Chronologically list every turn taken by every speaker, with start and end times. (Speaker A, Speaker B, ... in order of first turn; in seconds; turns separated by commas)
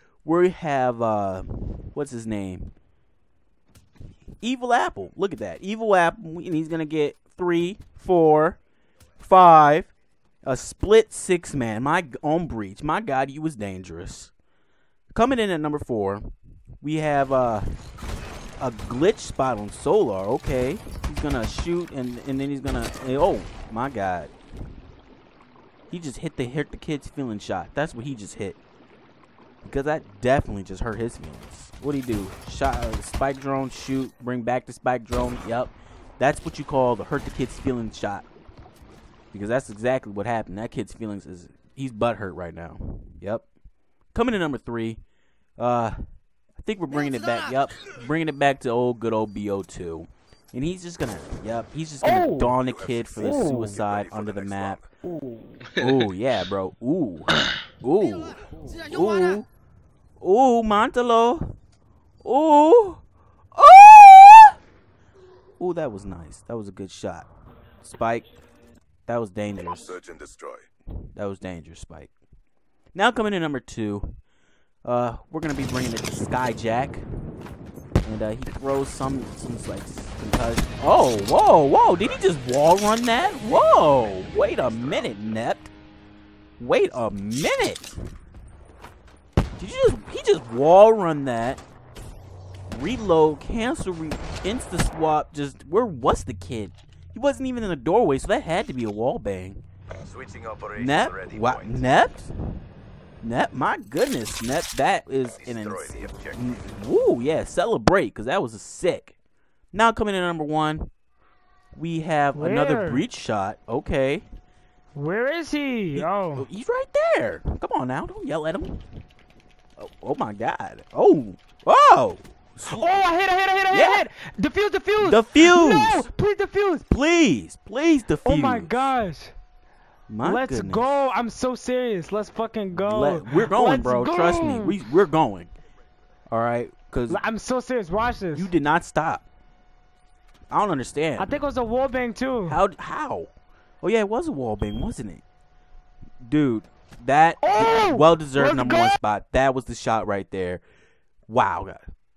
Speaker A: 0.2-2.7, Speaker A: 4.4-8.6, Speaker A: 9.2-9.9, Speaker A: 10.4-14.3, Speaker A: 15.1-17.7, Speaker A: 18.6-24.3, Speaker A: 25.9-28.6, Speaker A: 29.6-38.3, Speaker A: 39.3-43.5, Speaker A: 44.1-45.0, Speaker A: 45.6-46.0, Speaker A: 46.6-54.8, Speaker B: 52.0-52.5, Speaker C: 52.7-54.9, Speaker B: 53.2-53.8, Speaker B: 55.0-55.6, Speaker A: 55.8-59.5, Speaker A: 60.2-61.6, Speaker A: 62.2-63.0, Speaker A: 63.5-64.6, Speaker A: 65.6-67.3, Speaker A: 67.8-68.3, Speaker A: 69.1-70.0, Speaker C: 69.8-70.7, Speaker A: 71.2-72.1, Speaker A: 72.9-74.1, Speaker A: 74.8-77.1, Speaker A: 78.0-85.7, Speaker A: 86.6-88.0, Speaker A: 89.6-91.6, Speaker A: 92.7-99.6, Speaker C: 100.0-101.8, Speaker A: 100.7-102.6, Speaker A: 103.2-109.2, Speaker C: 105.4-106.5, Speaker A: 109.7-110.9, Speaker A: 111.7-114.2, Speaker B: 112.3-113.0, Speaker B: 115.0-116.5, Speaker A: 116.0-118.8, Speaker A: 119.8-122.9, Speaker B: 122.7-126.8, Speaker A: 123.7-124.1, Speaker A: 125.0-126.1, Speaker A: 126.9-128.9, Speaker B: 128.2-129.3, Speaker A: 130.1-130.9, Speaker B: 130.2-134.8, Speaker A: 132.7-135.5, Speaker A: 136.3-137.2, Speaker B: 137.1-138.5, Speaker A: 138.3-139.2, Speaker A: 140.5-141.4, Speaker B: 141.2-142.6, Speaker A: 142.5-143.3, Speaker A: 143.8-145.2, Speaker A: 146.2-150.6, Speaker B: 147.4-149.0, Speaker A: 151.3-151.8